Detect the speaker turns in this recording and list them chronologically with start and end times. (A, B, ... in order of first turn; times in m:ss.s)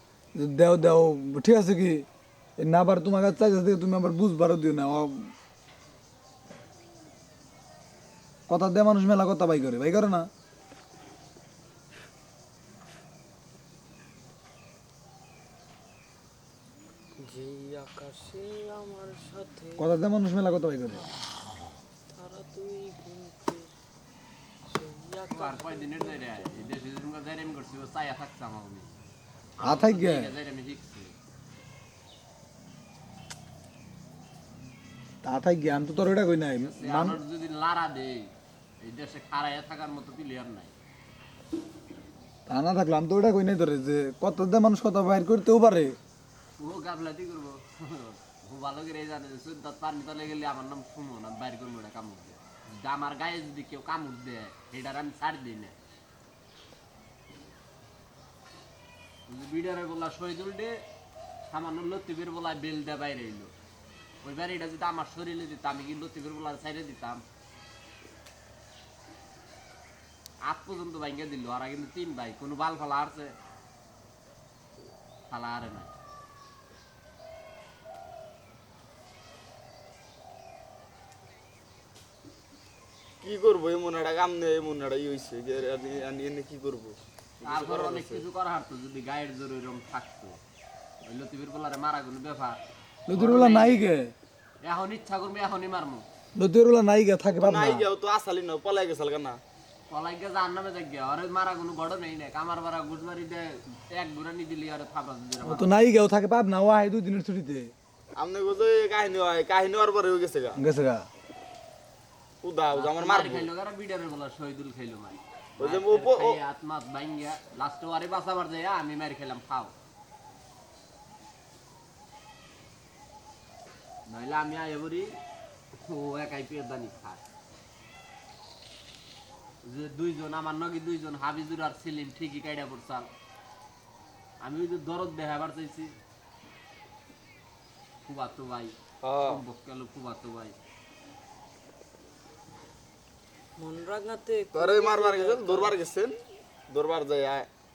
0:00.4-0:02.0 A
0:02.6-0:05.3 A
0:08.5-0:10.3 A
0:17.1-0:19.9 B
0:19.8-0:21.1 A
0:22.1-0:23.7 B
0:24.7-0:26.7 B
0:25.3-0:29.0 C
0:29.6-0:31.1 C
0:29.6-0:30.3 A
0:35.2-0:37.2 A
0:36.6-0:40.7 C
0:42.5-0:46.0 A
0:46.6-0:55.8 C
0:59.3-1:00.8 C
1:01.5-1:03.5 C
1:04.2-1:07.2 C
1:10.4-1:13.4 C
1:15.3-1:15.9 C
1:23.2-1:28.2 D
1:27.4-1:30.4 C
1:31.0-1:33.8 C
1:33.1-1:34.1 A
1:34.6-1:36.0 C
1:36.4-1:37.8 A
1:37.4-1:39.4 D
1:39.9-1:45.7 C
1:45.4-1:47.7 A
1:48.2-1:50.6 D
1:50.6-1:51.0 A
1:52.4-1:53.5 D
1:52.7-1:59.7 C
1:55.6-1:56.4 D
2:04.1-2:05.2 C
2:05.8-2:07.2 C
2:09.6-2:13.1 C
2:14.4-2:16.0 C
2:18.0-2:20.6 C
2:19.0-2:19.4 D
2:23.6-2:25.8 B
2:24.5-2:26.2 D
2:26.7-2:27.5 D